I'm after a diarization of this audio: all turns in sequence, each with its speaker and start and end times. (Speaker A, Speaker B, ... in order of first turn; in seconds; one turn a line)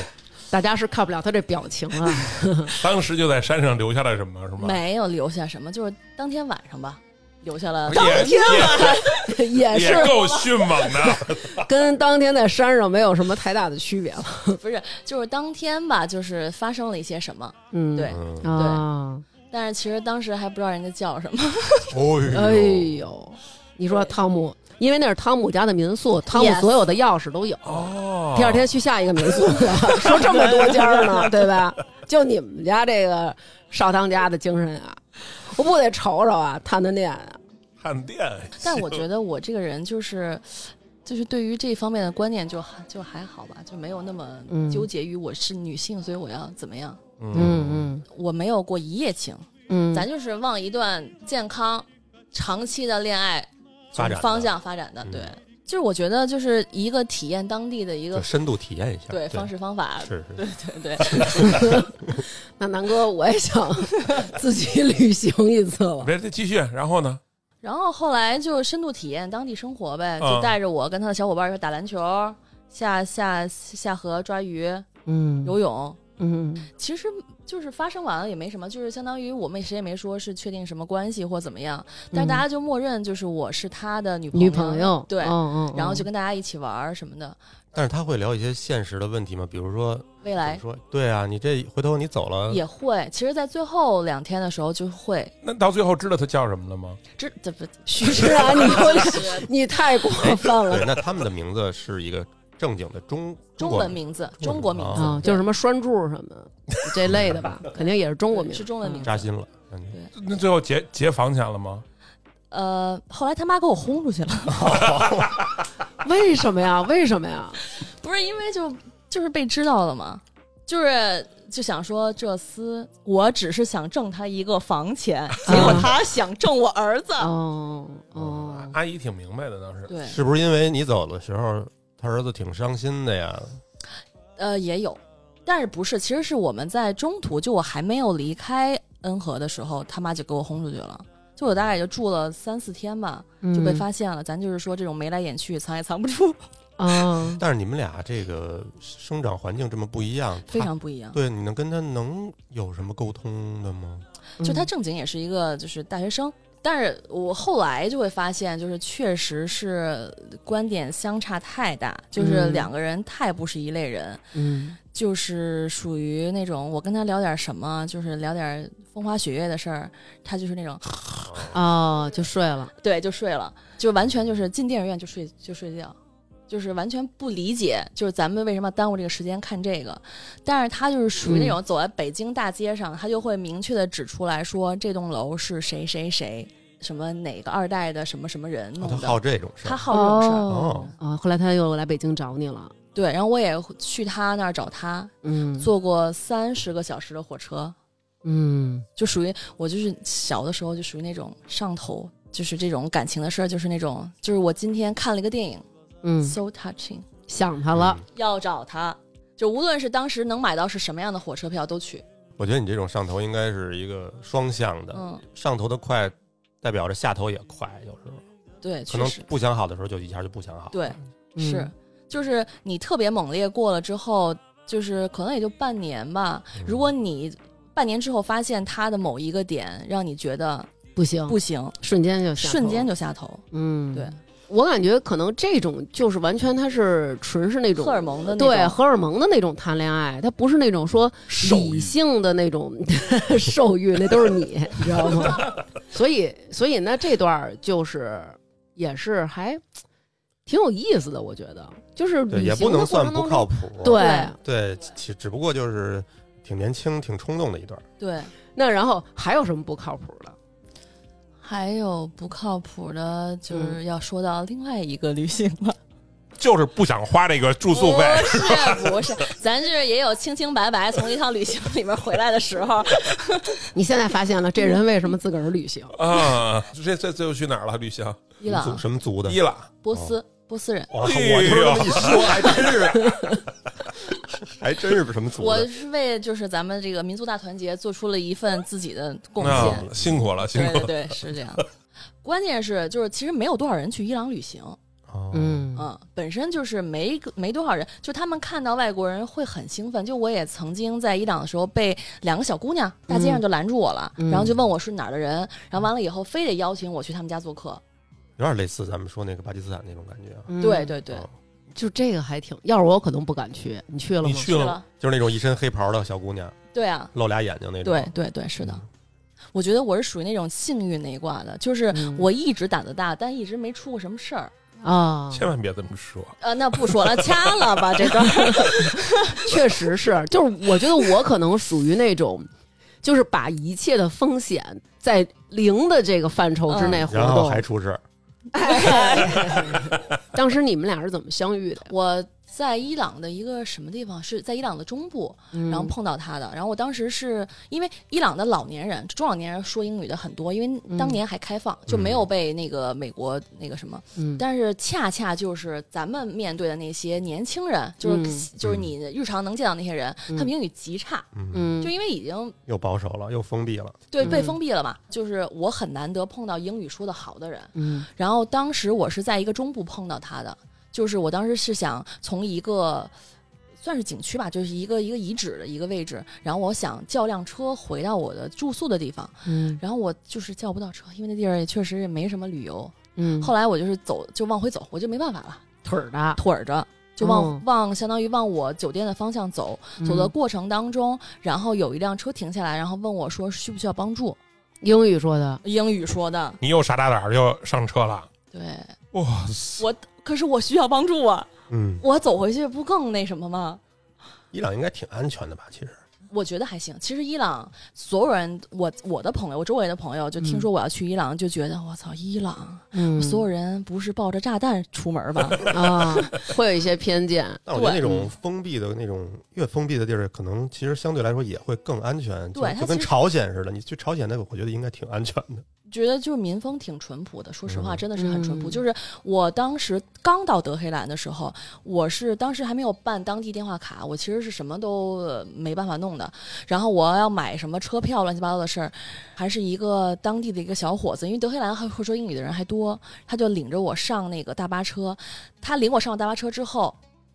Speaker A: 0.5-2.7
Speaker B: 2.7-4.8
Speaker C: 4.6-11.2
Speaker B: 7.9-11.7
Speaker A: 7.9-10.2
Speaker A: 11.6-14.6
Speaker C: 14.6-18.8
Speaker A: 17.7-19.2
Speaker D: 18.1-18.5
Speaker C: 19.5-22.0
Speaker D: 21.9-23.0
Speaker A: 22.3-37.4
Speaker C: 26.3-26.8
Speaker B: 27.6-28.7
Speaker C: 30.1-31.0
Speaker B: 37.8-39.0
Speaker C: 38.6-47.0
Speaker A: 44.5-44.9
Speaker B: 47.2-47.8
Speaker A: 47.3-48.0
Speaker D: 47.4-47.8
Speaker C: 48.1-58.3
Speaker A: 49.7-50.1
Speaker D: 54.0-54.5
Speaker D: 55.0-55.4
Speaker D: 58.1-59.5
Speaker C: 59.1-61.7
Speaker D: 60.0-60.4
Speaker D: 61.0-61.5
Speaker A: 61.4-61.9
Speaker A: 62.6-66.1
Speaker B: 66.0-67.2
Speaker C: 67.6-74.9
Speaker B: 70.2-70.5
Speaker A: 75.1-75.6
Speaker C: 75.5-76.0
Speaker A: 76.2-76.7
Speaker C: 76.7-87.4
Speaker A: 82.1-82.5
Speaker A: 84.3-86.1
Speaker D: 87.7-92.6
Speaker C: 90.2-90.6
Speaker C: 92.5-95.3
Speaker B: 95.4-97.0
Speaker C: 97.2-99.5
Speaker A: 98.0-101.0
Speaker D: 100.2-105.2
Speaker C: 103.6-105.5
Speaker A: 105.0-109.1
Speaker D: 107.1-107.5
Speaker C: 107.8-109.3
Speaker D: 109.0-110.0
Speaker B: 110.2-111.8
Speaker C: 112.5-114.8
Speaker D: 114.5-115.4
Speaker A: 116.0-117.6
Speaker C: 117.8-127.3
Speaker A: 125.5-125.9
Speaker A: 127.2-128.8
Speaker B: 128.2-129.9
Speaker C: 129.9-130.2
Speaker D: 130.0-133.6
Speaker C: 134.4-146.4
Speaker A: 143.4-143.9
Speaker A: 146.8-147.4
Speaker D: 147.3-154.1
Speaker C: 150.5-151.2
Speaker A: 154.4-154.7
Speaker C: 154.4-164.2
Speaker A: 162.2-162.7
Speaker A: 164.3-164.8
Speaker C: 164.9-171.5
Speaker D: 171.3-171.6
Speaker A: 171.5-172.7
Speaker C: 172.8-176.0
Speaker C: 176.5-190.5
Speaker A: 181.2-181.6
Speaker D: 188.8-189.8
Speaker A: 189.9-192.7
Speaker D: 190.5-190.9
Speaker C: 192.9-197.8
Speaker A: 195.2-195.7
Speaker A: 198.2-198.9
Speaker C: 199.0-205.7
Speaker A: 206.0-206.4
Speaker C: 206.2-207.1
Speaker A: 207.3-208.0
Speaker D: 207.7-208.1
Speaker C: 208.1-212.1
Speaker D: 212.4-218.2
Speaker C: 214.9-215.2
Speaker C: 218.6-219.3
Speaker D: 218.9-220.9
Speaker C: 220.7-230.7
Speaker A: 221.4-221.7
Speaker D: 226.6-226.9
Speaker A: 231.0-232.9
Speaker C: 231.3-231.8
Speaker C: 232.4-234.2
Speaker A: 233.5-249.6
Speaker C: 237.8-238.8
Speaker A: 250.5-254.4
Speaker D: 252.3-257.9
Speaker C: 253.9-254.3
Speaker C: 258.0-258.3
Speaker A: 258.6-260.4
Speaker C: 261.4-265.8
Speaker A: 263.5-263.8
Speaker B: 266.4-269.1
Speaker C: 267.7-273.7
Speaker A: 273.7-276.0
Speaker B: 275.9-278.3
Speaker C: 278.4-278.9
Speaker D: 278.4-279.4
Speaker B: 279.2-279.7
Speaker C: 279.8-280.9
Speaker D: 279.9-280.2
Speaker D: 280.9-283.3
Speaker B: 281.0-282.9
Speaker C: 282.1-282.4
Speaker D: 284.3-285.7
Speaker C: 285.4-289.9
Speaker D: 289.4-290.2
Speaker B: 289.4-291.1
Speaker C: 290.4-291.7
Speaker C: 292.2-294.8
Speaker D: 295.1-295.7
Speaker A: 295.3-295.9
Speaker C: 295.8-307.8
Speaker A: 303.1-303.4
Speaker A: 304.2-304.5
Speaker D: 308.4-310.5
Speaker A: 310.5-310.9
Speaker C: 310.6-311.3
Speaker A: 311.7-314.5
Speaker B: 314.2-314.8
Speaker C: 314.4-314.9
Speaker D: 314.9-316.6
Speaker C: 316.7-317.1
Speaker D: 317.1-318.8
Speaker C: 317.8-318.8
Speaker C: 319.5-324.5
Speaker A: 321.9-322.3
Speaker A: 324.8-325.5
Speaker B: 325.3-327.7
Speaker C: 326.4-329.5
Speaker A: 328.2-332.5
Speaker A: 333.0-337.6
Speaker C: 336.7-337.0
Speaker D: 336.9-338.0
Speaker A: 338.5-341.9
Speaker C: 338.6-339.7
Speaker C: 341.9-361.3
Speaker A: 345.5-345.9
Speaker A: 350.9-351.2
Speaker D: 351.9-352.3
Speaker A: 354.2-354.4
Speaker A: 358.0-358.5
Speaker D: 358.6-358.9
Speaker D: 361.4-361.8
Speaker A: 361.5-361.9
Speaker C: 361.8-362.6
Speaker D: 362.7-364.2
Speaker C: 364.1-373.1
Speaker A: 364.2-364.6
Speaker A: 367.8-368.1
Speaker C: 373.8-385.6
Speaker A: 379.5-379.8
Speaker A: 383.2-383.5
Speaker A: 385.9-386.4
Speaker C: 386.4-394.4
Speaker A: 387.2-387.6
Speaker A: 390.0-390.3
Speaker A: 394.8-395.6
Speaker C: 395.6-396.6
Speaker B: 396.6-398.3
Speaker C: 398.5-398.9
Speaker B: 399.1-399.8
Speaker C: 399.8-401.5
Speaker D: 401.7-402.0
Speaker C: 402.0-403.8
Speaker D: 404.5-406.0
Speaker C: 406.3-416.4
Speaker A: 410.4-410.7
Speaker A: 412.9-413.4
Speaker A: 415.7-418.2
Speaker D: 417.7-425.6
Speaker C: 417.7-418.1
Speaker C: 422.6-423.1
Speaker C: 425.9-447.0
Speaker D: 427.7-428.0
Speaker A: 428.2-428.8